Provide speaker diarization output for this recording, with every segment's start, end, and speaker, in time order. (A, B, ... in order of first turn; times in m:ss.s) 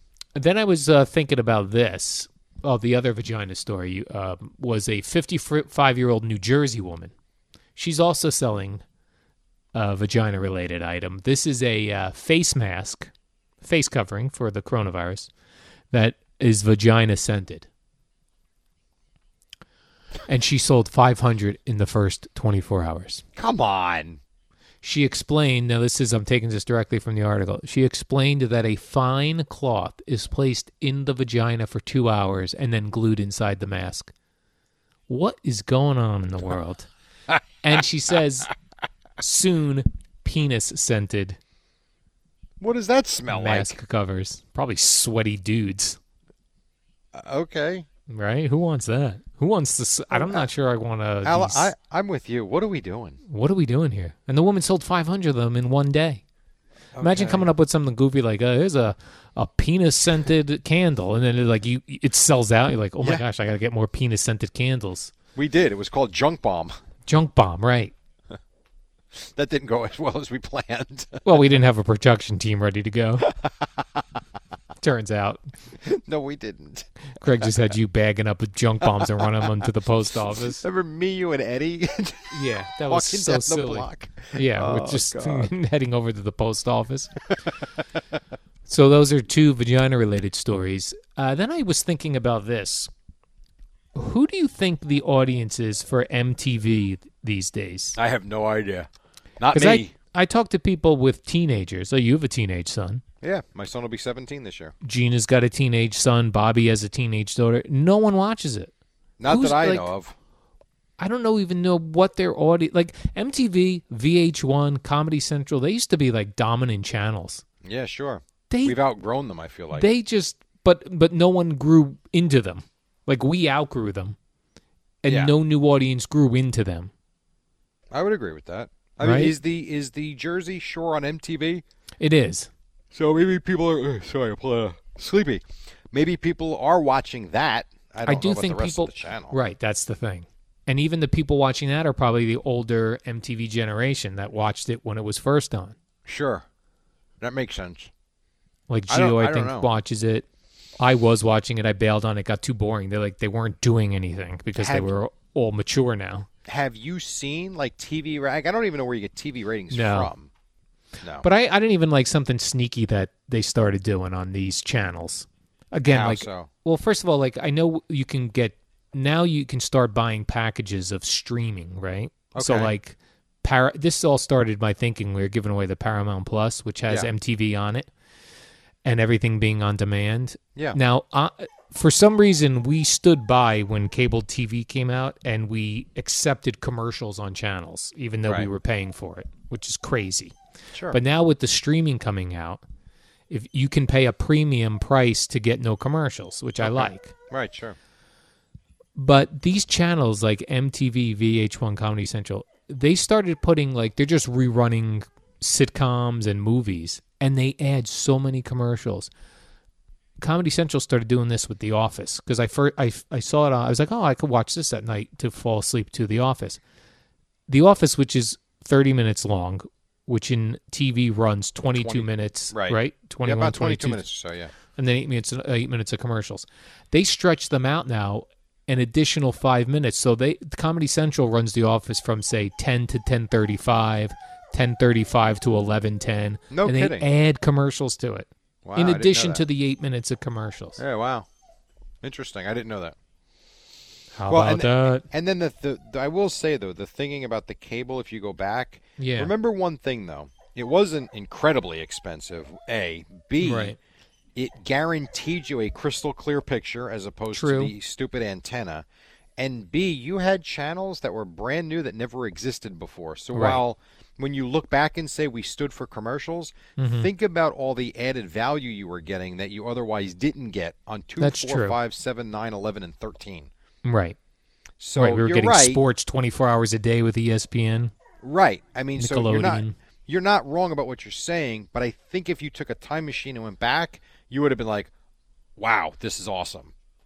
0:00.4-0:07.1 A
0:07.8-0:08.8 A
0:09.7-0:13.1 A
0:13.6-0:15.3 A
0:15.9-0:17.7 A
0:20.3-0:23.2 A
0:23.4-0:24.2 B
0:24.8-0:34.1 A
0:35.1-0:36.9 A
0:37.6-0:38.5 A
0:39.2-0:41.4 A
0:42.6-0:43.8 B
0:43.3-0:46.0 A
0:47.1-0:47.8 B
0:48.1-0:51.7 A
0:50.1-0:50.4 B
0:51.2-0:53.2 B
0:53.3-0:56.2 A
0:57.0-0:57.5 B
0:57.0-1:05.1 A
1:05.3-1:06.8 B
1:07.1-1:07.9 A
1:09.2-1:11.2 B
1:11.2-1:13.3 A
1:14.8-1:15.4 A
1:15.8-1:16.9 B
1:17.2-1:20.6 A
1:18.9-1:19.5 B
1:20.6-1:25.5 B
1:22.3-1:27.1 A
1:28.6-1:32.9 A
1:33.9-1:38.0 A
1:38.0-1:38.9 B
1:39.4-1:39.9 B
1:39.5-1:43.0 A
1:43.2-1:44.7 B
1:44.8-1:48.7 A
1:49.2-1:50.1 B
1:49.3-1:49.9 A
1:51.0-1:57.4 A
1:57.6-1:59.9 B
1:58.5-1:58.8 A
1:59.7-2:04.2 A
2:05.0-2:06.9 A
2:05.0-2:05.3 B
2:07.9-2:11.6 B
2:09.0-2:09.3 A
2:12.0-2:12.5 A
2:12.9-2:19.4 B
2:18.0-2:25.8 A
2:26.0-2:26.4 B
2:27.2-2:27.9 B
2:28.7-2:30.2 A
2:28.9-2:29.7 B
2:30.8-2:36.3 A
2:34.6-2:34.9 B
2:36.5-2:40.3 B
2:39.7-2:40.1 A
2:41.2-2:57.9 A
2:45.9-2:46.5 B
2:52.3-2:52.7 B
2:58.8-3:10.3 A
3:10.7-3:11.0 B
3:10.9-3:12.6 A
3:13.3-3:17.1 A
3:16.6-3:17.8 B
3:19.0-3:29.1 A
3:30.2-3:36.6 A
3:37.5-3:44.0 A
3:41.7-3:44.5 B
3:44.8-4:00.8 A
3:56.5-3:57.1 B
3:58.6-3:59.4 B
4:00.8-4:01.2 B
4:02.0-4:02.9 B
4:04.1-4:05.0 A
4:04.3-4:13.8 B
4:09.0-4:09.3 A
4:13.4-4:13.8 A
4:14.3-4:18.8 B
4:17.3-4:17.7 A
4:19.4-4:33.5 B
4:23.3-4:23.6 A
4:26.8-4:27.1 A
4:31.2-4:31.8 A
4:33.8-4:34.2 A
4:34.8-4:35.8 B
4:35.0-4:37.9 A
4:38.2-4:44.9 B
4:39.0-4:39.7 A
4:45.6-4:46.7 B